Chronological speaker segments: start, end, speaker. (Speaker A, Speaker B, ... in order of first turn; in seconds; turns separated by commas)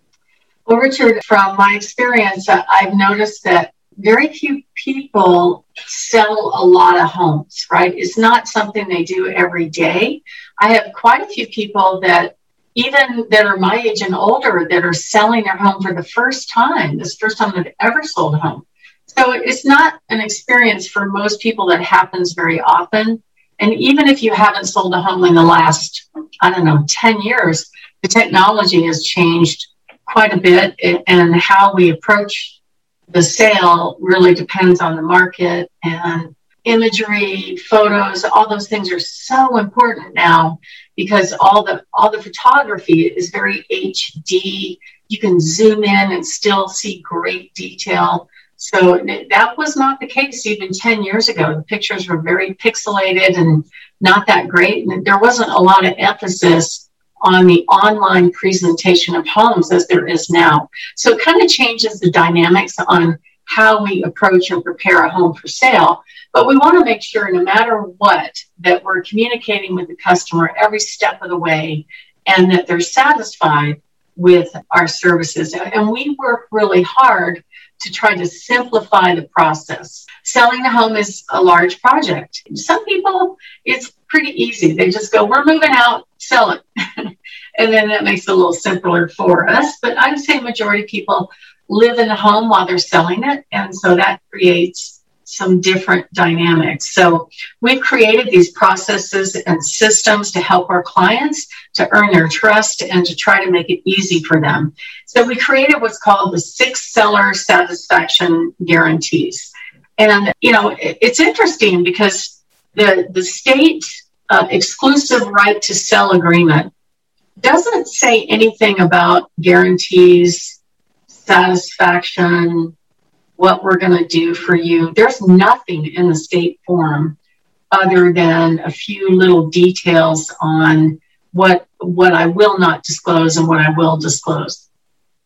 Speaker A: 0.7-32.6, Speaker A: 33.1-116.7, Speaker A: 117.4-122.7, Speaker A: 123.4-127.2, Speaker A: 127.7-134.7